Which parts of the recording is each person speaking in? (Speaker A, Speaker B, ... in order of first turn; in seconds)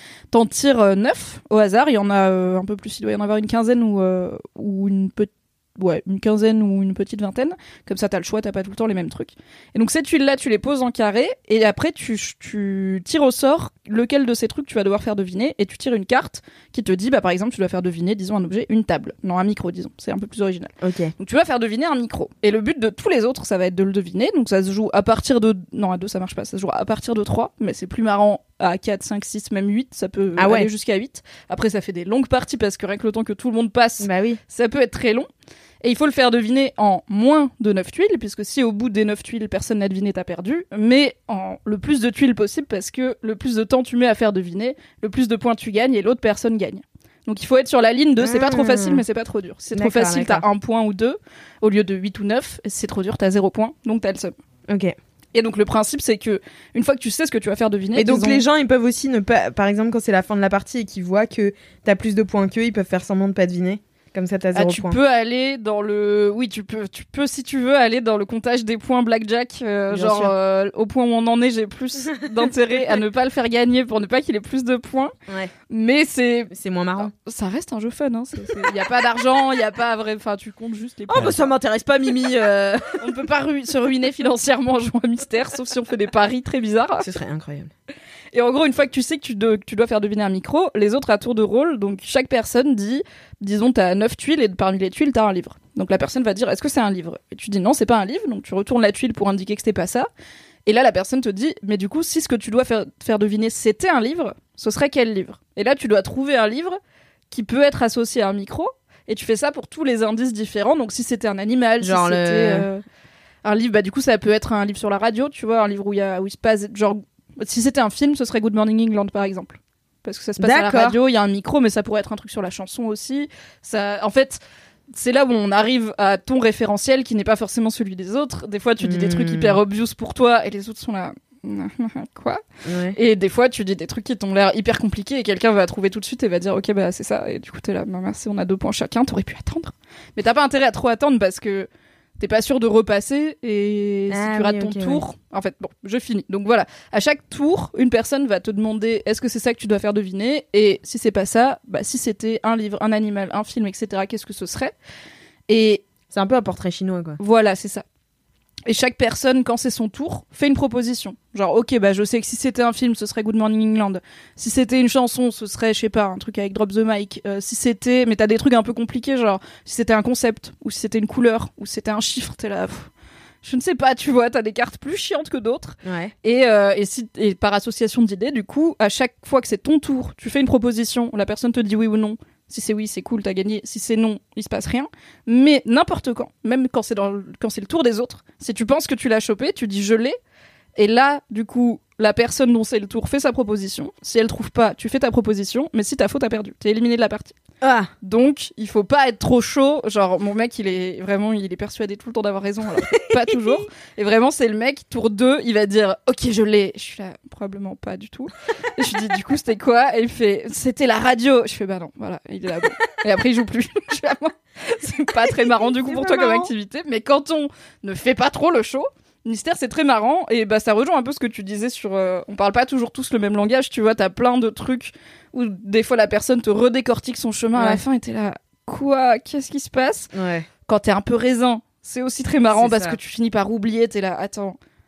Speaker A: 0.3-35.3, 35.8-54.3, 55.3-58.4, 64.5-75.1, 75.7-81.5, 83.0-87.0, 88.3-100.1, 100.7-106.8, 107.3-112.8, 113.4-132.4, 132.9-141.7, 142.2-154.7, 155.5-155.8, 157.2-157.8, 158.7-172.9, 173.4-190.2, 190.8-197.3, 198.0-230.1, 230.7-234.6
Speaker B: 20.8-21.1, 30.4-30.7, 34.0-34.4, 48.2-49.0, 49.7-50.4, 54.7-55.0, 58.0-65.0, 69.9-70.3, 75.3-75.5, 76.5-77.1, 81.1-83.0, 87.0-87.7, 111.8-112.7, 120.4-121.0, 128.8-129.6, 132.7-133.0, 144.1-145.0, 156.1-157.2, 175.8-176.1, 197.6-197.9, 202.9-203.6, 215.3-216.5, 227.6-227.8, 230.1-230.5, 232.5-233.0